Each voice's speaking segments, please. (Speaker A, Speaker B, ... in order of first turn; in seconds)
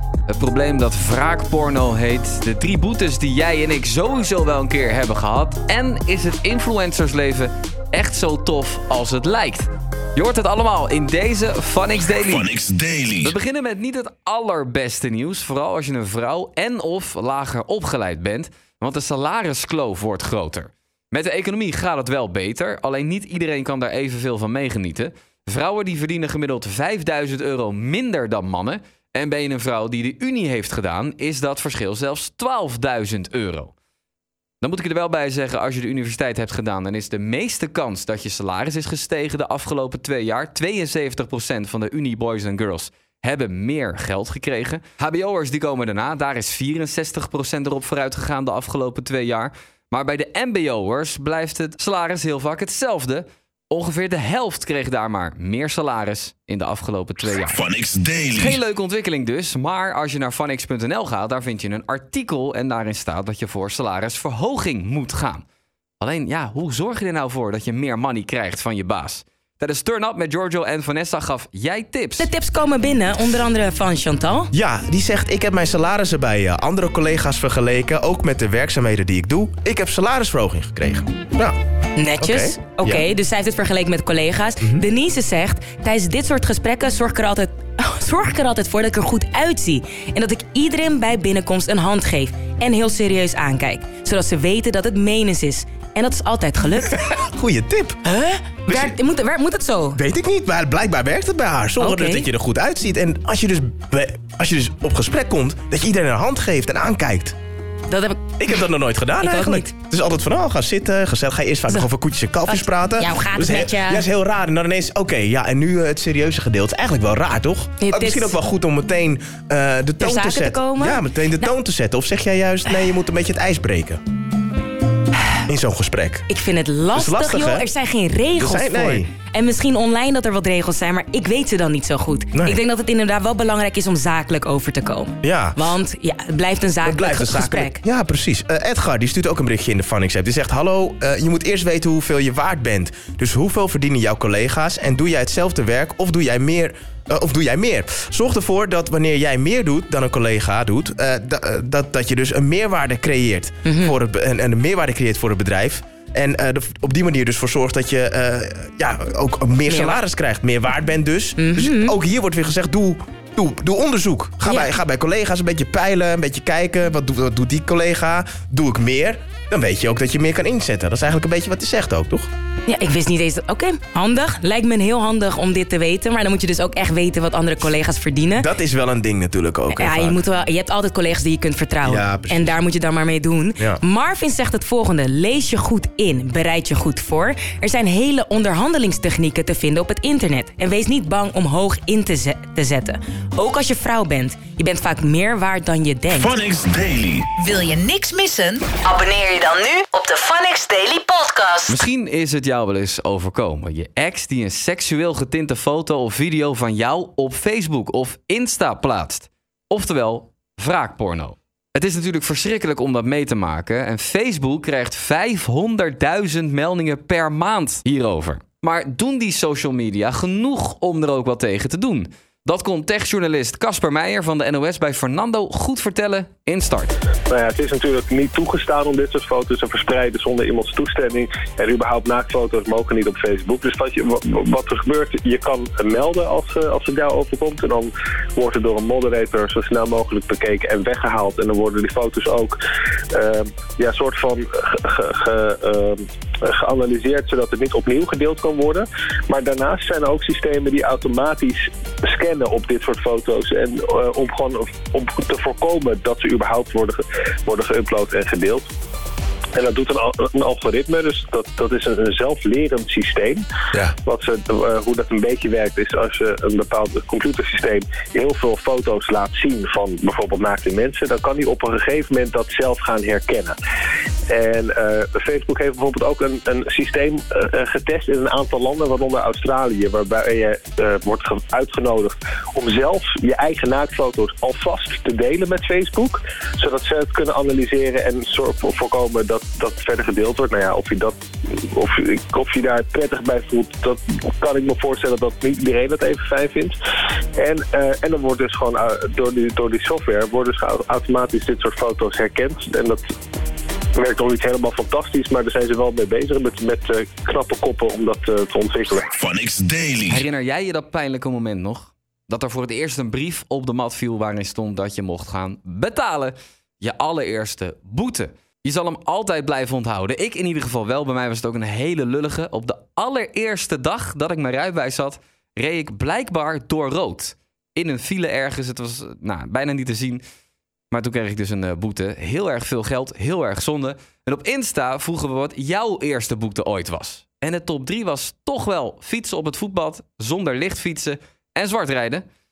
Speaker A: 0.3-12.6, 13.2-33.7, 34.6-57.7, 58.3-65.4, 66.0-72.3, 201.7-226.9, 310.1-330.2, 330.9-342.2
Speaker B: 12.3-13.3, 57.5-58.6, 196.2-197.3, 309.1-310.2
Speaker C: 72.2-74.5, 82.0-97.2, 98.0-100.0, 101.8-102.3, 107.9-108.5, 109.2-109.7, 112.5-114.0, 117.8-118.3, 120.0-121.5, 126.3-137.8, 153.7-154.0, 159.7-160.0, 161.4-161.9, 164.4-164.8, 172.7-178.5, 179.7-196.4, 198.9-199.5
Speaker D: 74.5-81.5, 82.2-83.0, 97.0-98.0, 98.7-99.0, 100.0-107.3, 108.4-124.0, 125.5-126.3, 126.9-127.7, 128.4-129.1, 132.3-132.6, 135.2-135.6, 136.8-172.3, 178.4-180.2, 181.8-182.6
Speaker E: 197.4-201.7
Speaker F: 227.3-242.6, 243.1-258.7, 259.6-263.4, 264.0-273.6, 274.3-291.1, 291.7-296.8, 297.4-303.0, 304.0-309.1